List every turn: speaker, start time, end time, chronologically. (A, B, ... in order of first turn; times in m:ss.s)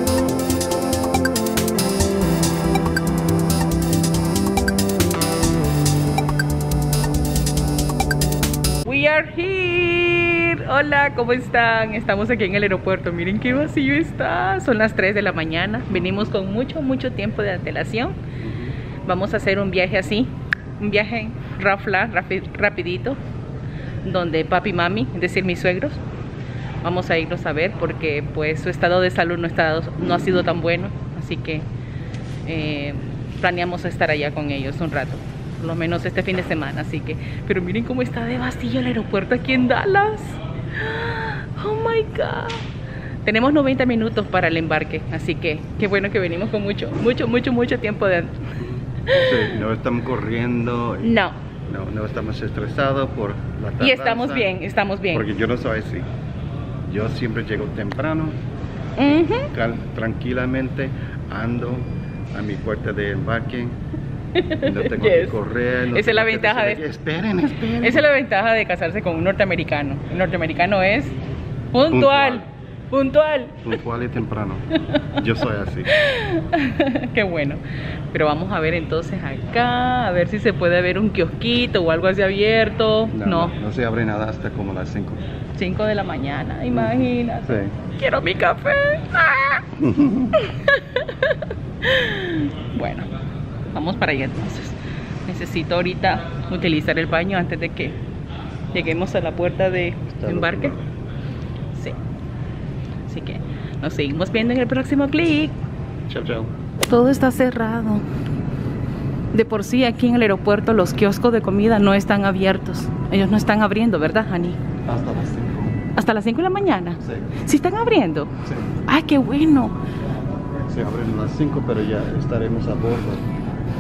0:08.8-0:18.2 A
0:18.4-0:18.8 B
0:19.0-0:23.2 A
0:24.0-0:26.0 A
0:26.8-0:31.7 A
0:32.4-0:42.6 A
0:43.2-0:48.5 A
0:48.6-0:54.6 B
0:49.0-0:49.6 A
0:51.0-0:51.4 A
0:53.8-0:55.3 A
0:55.1-0:56.1 B
0:56.9-0:58.4 B
0:59.0-0:59.5 A
0:59.0-1:03.8 B
1:04.3-1:06.8 A
1:04.6-1:08.1 B
1:07.8-1:11.2 A
1:11.7-1:13.8 A
1:11.9-1:12.5 B
1:13.6-1:15.9 B
1:14.8-1:15.2 A
1:15.9-1:23.5 A
1:23.1-1:25.3 B
1:25.6-1:29.7 A
1:26.7-1:27.7 B
1:29.8-1:30.4 B
1:30.4-1:33.1 A
1:33.7-1:38.0 A
1:38.7-1:40.8 A
1:40.1-1:40.9 B
1:43.1-1:45.6 A
1:46.1-1:46.5 B
1:46.9-1:48.0 A
1:49.3-1:54.6 A
1:54.8-1:55.8 B
1:56.0-1:58.3 A
1:57.0-1:57.4 B
1:58.4-1:58.8 B
1:58.8-1:59.8 A
2:00.6-2:03.3 B